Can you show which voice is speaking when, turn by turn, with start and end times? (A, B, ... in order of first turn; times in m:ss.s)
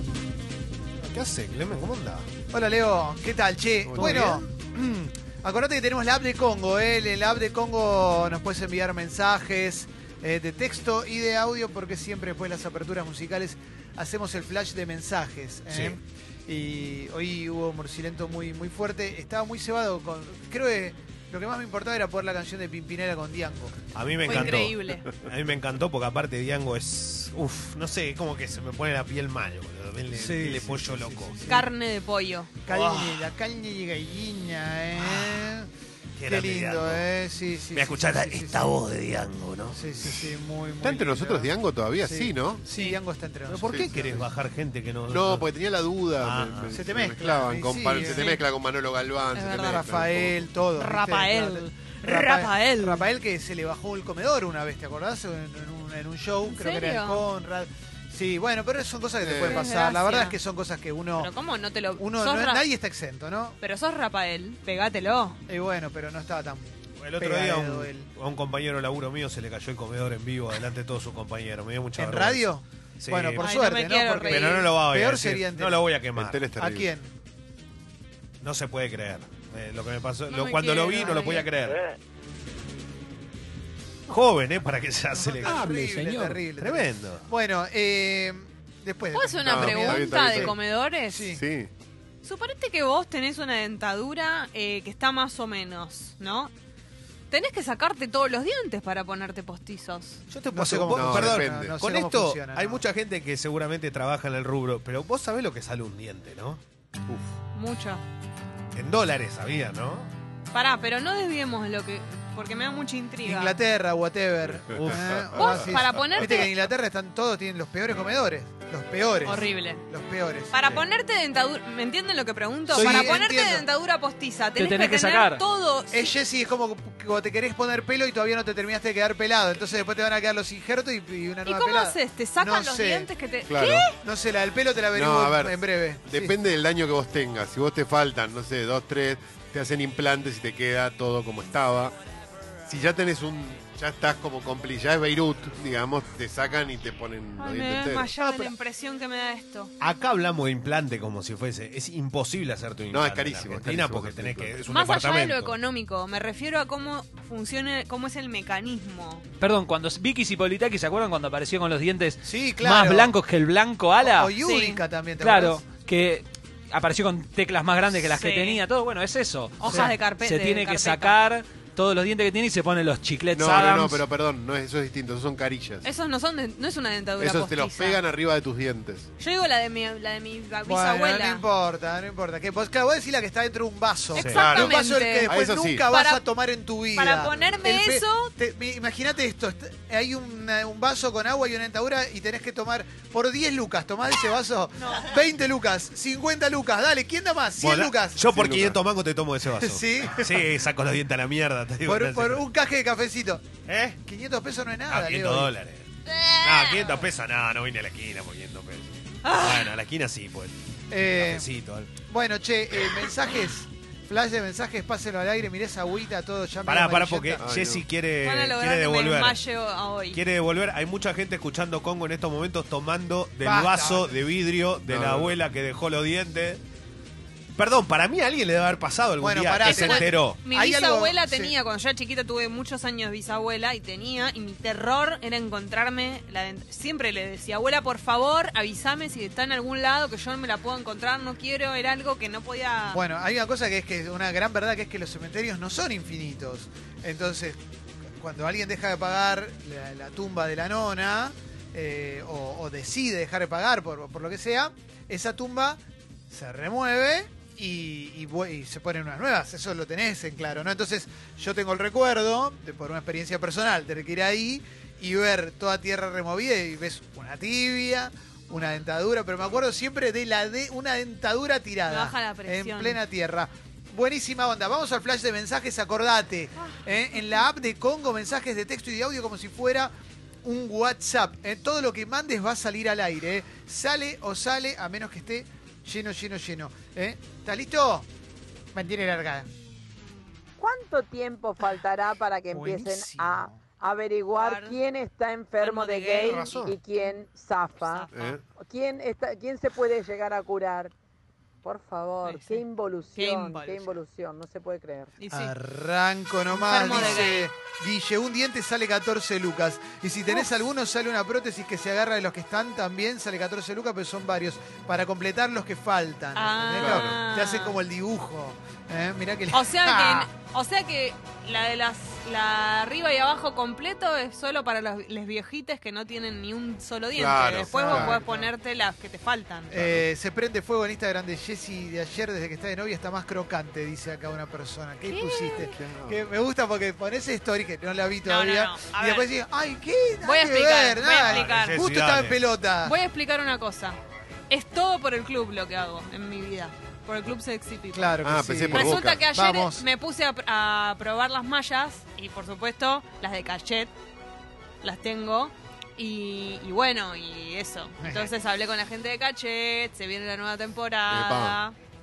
0:01.0-0:02.3 A
0:02.5-0:23.8 B
0:03.9-0:04.4 C
0:04.0-0:04.4 A
0:15.7-0:16.0 A
0:23.9-0:31.4 A
0:24.2-0:25.1 D
0:30.1-0:31.7 B
0:31.5-0:32.5 D
0:32.6-0:35.7 B
0:32.7-0:33.3 A
0:35.0-0:35.5 A
0:36.2-0:37.1 A
0:36.2-0:38.8 B
0:37.7-0:39.8 A
0:39.7-0:44.3 B
0:40.2-0:42.6 C
0:42.7-0:43.0 D
0:43.5-0:45.5 A
0:45.1-0:50.5 C
0:46.2-0:46.7 A
0:46.7-0:48.2 B
0:47.9-0:48.4 D
0:49.3-0:49.8 D
0:49.6-1:01.3 B
0:50.7-0:53.0 D
0:56.4-0:57.3 D
0:59.2-0:59.6 C
0:59.5-1:00.4 D
1:01.1-1:02.7 D
1:02.0-1:03.6 B
1:03.6-1:05.4 D
1:05.5-1:08.1 B
1:07.0-1:13.5 A
1:12.0-1:15.8 B
1:13.4-1:14.7 D
1:14.2-1:16.4 A
1:16.1-1:16.9 C
1:16.6-1:17.1 B
1:18.4-1:21.8 A
1:20.3-1:21.5 D
1:24.1-1:25.6 A
1:25.1-1:30.5 B
1:25.5-1:26.4 E
1:26.6-1:27.2 A
1:29.1-1:31.3 D
1:29.4-1:30.6 C
1:31.1-1:31.4 B
1:31.3-1:31.7 C
1:32.2-1:36.5 D
1:37.3-1:40.2 D
1:40.3-1:47.2 A
1:40.5-1:42.8 B
1:40.9-1:41.7 C
1:47.5-1:48.0 D
1:48.7-1:50.1 A
1:50.5-1:53.6 D
1:53.2-2:00.8 B
1:54.8-1:55.5 A
1:55.4-1:56.5 D
1:59.2-1:59.8 D
2:00.5-2:06.1 D
2:02.7-2:03.7 B
2:04.6-2:05.4 E
2:05.9-2:13.1 B
2:11.4-2:13.9 D
2:13.5-2:13.8 C
2:13.9-2:16.4 B
2:14.9-2:21.9 C
2:22.6-2:28.1 C
2:27.4-2:29.7 D
2:29.8-2:35.5 A
2:32.9-2:34.6 C
2:34.7-2:39.2 D
2:39.4-2:44.3 E
2:42.2-2:43.1 B
2:44.0-2:45.6 B
2:44.4-2:44.8 D
2:45.2-2:54.0 E
2:48.0-2:48.6 D
2:49.6-2:51.2 D
2:49.6-2:49.9 B
2:53.3-2:55.9 C
2:55.8-2:58.0 D
2:57.2-2:59.1 C
2:59.2-3:01.4 D
3:00.6-3:18.2 B
3:04.2-3:04.5 A
3:04.2-3:05.3 D
3:04.3-3:04.7 C
3:05.3-3:05.8 C
3:05.9-3:06.2 D
3:06.9-3:08.3 D
3:14.8-3:15.2 D
3:17.6-3:22.4 A
3:18.2-3:18.8 C
3:19.6-3:20.4 B
3:21.8-3:23.4 B
3:23.7-3:24.0 A
3:24.0-3:25.5 B
3:24.9-3:25.9 A
3:26.1-3:27.1 D
3:26.4-3:31.9 A
3:29.2-3:29.7 D
3:30.9-3:31.5 B
3:32.1-3:37.4 B
3:36.6-3:39.4 A
3:37.4-3:37.8 C
3:38.2-3:40.2 D
3:40.1-3:46.6 A
3:43.4-3:44.1 B
3:44.9-3:45.4 C
3:47.6-3:50.4 A
3:49.2-3:51.5 B
3:49.6-4:03.0 D
4:02.9-4:07.6 B
4:08.2-4:39.9 B
4:31.9-4:33.0 D
4:40.4-4:48.1 B
4:48.7-4:49.5 B
4:50.6-5:00.9 F
4:52.5-4:53.6 B
4:54.3-4:54.8 D
4:55.6-4:56.7 D
4:56.3-4:56.7 C
4:57.8-4:58.4 D
4:58.1-4:58.4 C
5:01.6-5:05.1 F
5:02.2-5:02.6 D
5:03.1-5:04.0 D
5:05.2-5:05.5 D
5:05.3-5:20.3 B
5:06.5-5:07.5 D
5:16.4-5:17.7 D
5:16.8-5:17.2 C
5:19.5-5:29.8 D
5:27.1-5:28.1 C
5:27.7-5:28.5 B
5:29.7-5:42.9 B
5:29.7-5:30.1 C
5:35.0-5:35.7 D
5:35.6-5:36.2 C
5:38.2-5:39.3 D
5:40.2-5:41.8 D
5:41.2-5:42.5 A
5:42.8-5:44.0 D
5:44.5-5:48.1 D
5:47.9-5:49.8 B
5:48.2-5:49.2 C
5:48.7-5:53.9 D
5:54.8-6:01.8 D
5:58.0-5:58.3 B
6:01.1-6:01.6 C